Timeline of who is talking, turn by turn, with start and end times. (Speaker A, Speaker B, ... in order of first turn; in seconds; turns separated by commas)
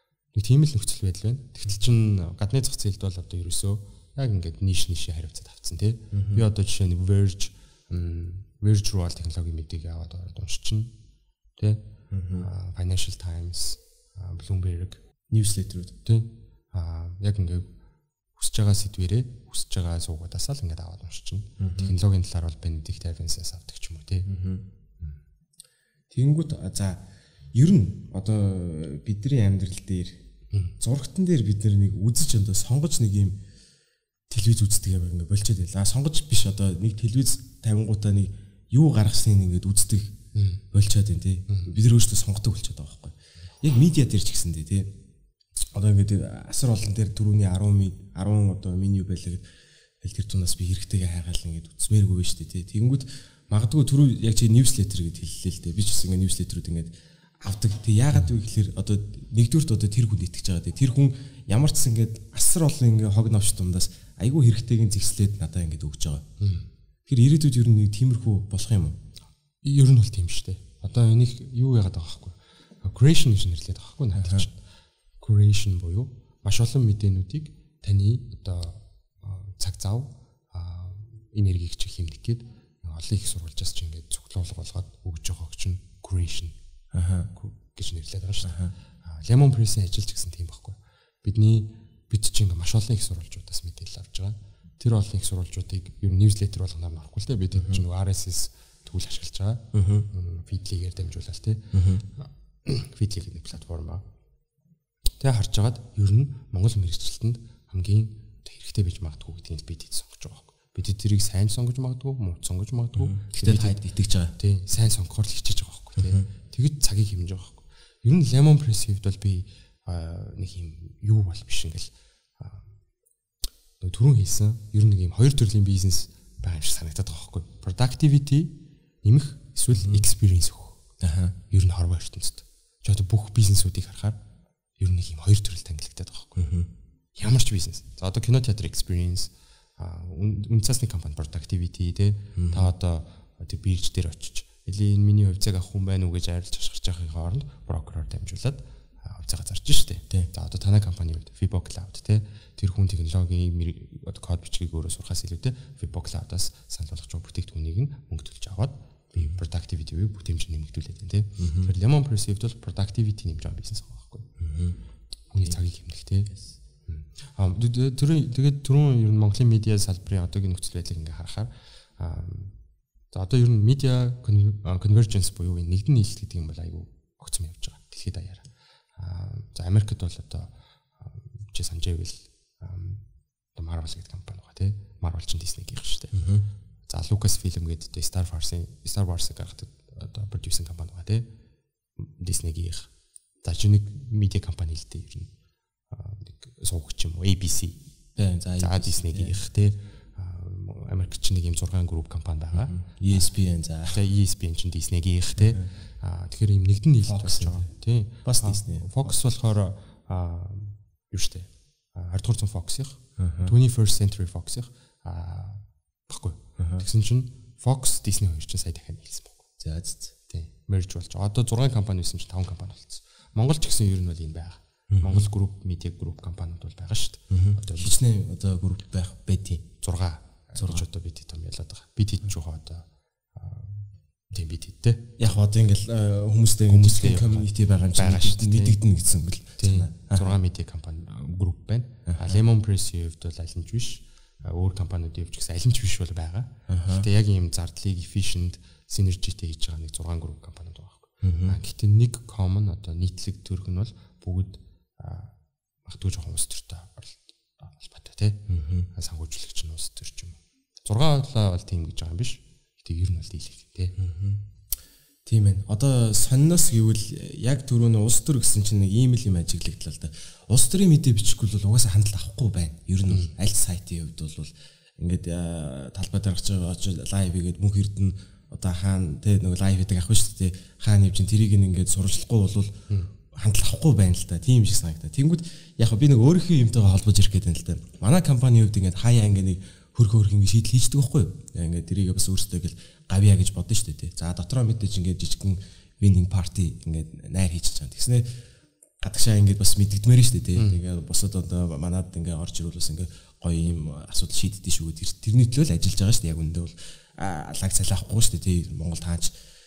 Speaker A: 0.3-10.9, Speaker B: 6.1-6.4, Speaker B: 12.1-12.5, Speaker A: 12.3-15.0, Speaker B: 15.3-15.9, Speaker A: 16.0-17.7, Speaker A: 18.4-24.3, Speaker B: 21.6-21.9, Speaker B: 24.3-24.6, Speaker B: 26.1-30.2, Speaker B: 30.8-33.4, Speaker B: 34.3-40.1, Speaker A: 40.3-40.6, Speaker B: 40.7-44.9, Speaker A: 41.5-41.8, Speaker B: 45.7-66.2, Speaker A: 66.4-66.7, Speaker B: 67.1-69.0, Speaker A: 69.6-74.6, Speaker B: 74.2-74.4, Speaker A: 75.2-86.5, Speaker B: 86.9-87.3, Speaker A: 87.3-104.0, Speaker B: 88.4-88.7, Speaker B: 97.5-97.8, Speaker B: 99.7-100.1, Speaker B: 101.7-102.0, Speaker A: 105.2-113.8, Speaker B: 113.0-114.3, Speaker A: 114.4-122.7, Speaker A: 123.8-130.8, Speaker B: 131.0-131.3, Speaker A: 131.5-134.2, Speaker A: 134.8-136.5, Speaker B: 136.4-136.7, Speaker A: 137.2-164.3, Speaker B: 142.3-142.7, Speaker B: 161.4-161.7, Speaker B: 164.4-164.8, Speaker A: 165.3-166.3, Speaker A: 166.9-172.5, Speaker A: 173.1-183.0, Speaker A: 183.5-186.2, Speaker B: 186.1-186.4, Speaker A: 186.9-191.2, Speaker A: 192.0-192.9, Speaker A: 193.4-195.3, Speaker A: 195.9-197.8, Speaker B: 198.2-199.4, Speaker A: 198.6-203.2, Speaker B: 202.5-204.0, Speaker A: 203.9-219.5, Speaker B: 205.4-205.7, Speaker B: 207.1-207.7, Speaker B: 208.2-209.1, Speaker B: 213.2-213.5, Speaker B: 216.6-216.8, Speaker B: 219.6-220.1, Speaker A: 220.3-227.9, Speaker B: 224.9-225.3, Speaker B: 227.3-229.7, Speaker A: 229.8-235.2, Speaker B: 230.6-230.8, Speaker B: 235.2-240.3, Speaker A: 236.7-238.8, Speaker A: 239.6-255.3, Speaker B: 242.1-242.4, Speaker B: 246.7-247.1, Speaker B: 251.2-251.6, Speaker A: 255.8-258.4, Speaker B: 258.5-258.9, Speaker A: 258.9-263.9, Speaker B: 264.0-264.4, Speaker B: 265.2-298.4, Speaker B: 299.0-309.3